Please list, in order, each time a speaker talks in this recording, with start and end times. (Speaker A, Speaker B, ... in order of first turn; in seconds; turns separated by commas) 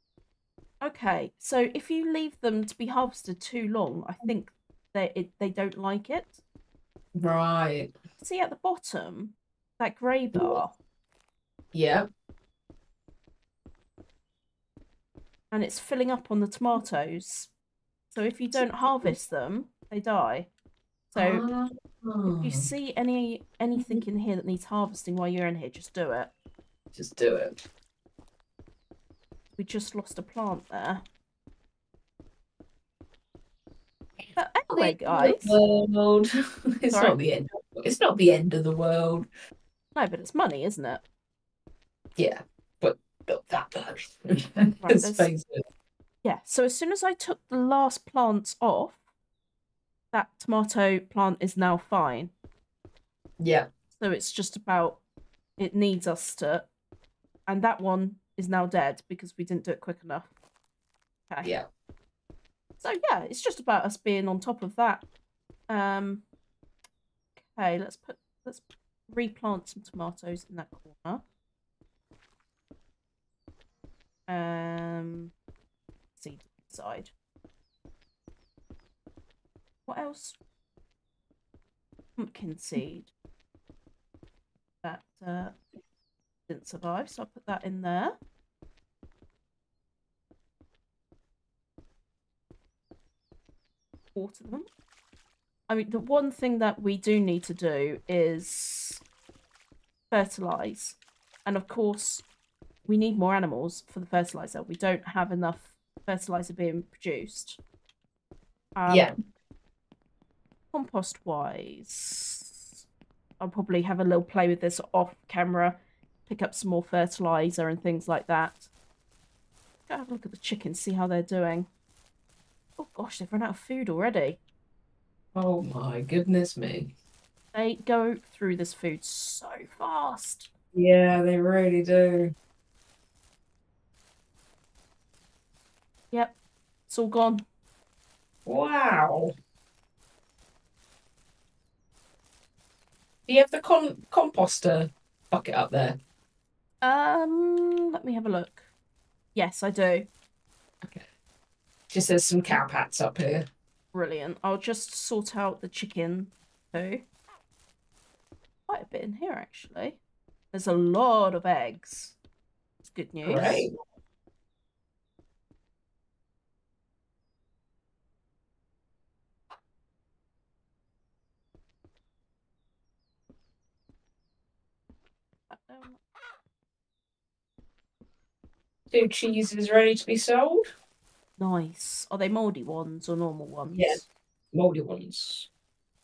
Speaker A: 0.8-6.4, Speaker B: 7.2-7.9, Speaker A: 8.2-10.7, Speaker B: 11.7-12.1, Speaker A: 15.5-17.5, Speaker A: 18.1-20.5, Speaker A: 21.1-21.4, Speaker B: 21.1-22.7, Speaker A: 22.3-26.3, Speaker B: 26.9-27.6, Speaker A: 29.6-31.0, Speaker A: 34.4-35.6, Speaker B: 34.7-36.3, Speaker B: 36.8-39.3, Speaker A: 39.9-41.0, Speaker B: 42.2-45.6, Speaker A: 44.8-45.3, Speaker A: 46.2-49.0, Speaker A: 50.1-52.3, Speaker B: 53.4-53.7, Speaker A: 54.0-55.0, Speaker A: 55.6-56.7, Speaker A: 57.5-60.3, Speaker A: 62.8-65.0, Speaker A: 65.7-66.2, Speaker A: 67.4-71.2, Speaker A: 74.3-75.3, Speaker A: 76.2-77.1, Speaker A: 79.9-80.4, Speaker A: 82.2-83.1, Speaker A: 84.8-85.5, Speaker A: 86.5-88.2, Speaker A: 94.1-94.7, Speaker A: 95.7-99.0, Speaker A: 100.1-102.2, Speaker A: 102.8-107.6, Speaker A: 108.8-109.1, Speaker A: 110.7-112.8, Speaker A: 113.4-118.7, Speaker A: 119.9-121.7, Speaker A: 122.8-124.4, Speaker B: 125.3-126.9, Speaker A: 127.5-130.5, Speaker B: 130.7-132.3, Speaker A: 136.9-137.4, Speaker B: 138.4-139.3, Speaker B: 143.3-146.0, Speaker A: 146.8-148.7, Speaker A: 149.3-150.1, Speaker B: 151.9-153.5, Speaker A: 153.9-157.0, Speaker A: 158.7-160.0, Speaker A: 160.5-162.2, Speaker A: 162.8-163.7, Speaker B: 163.2-163.7, Speaker A: 175.5-176.0, Speaker B: 178.9-180.7, Speaker A: 181.4-184.1, Speaker B: 184.5-185.5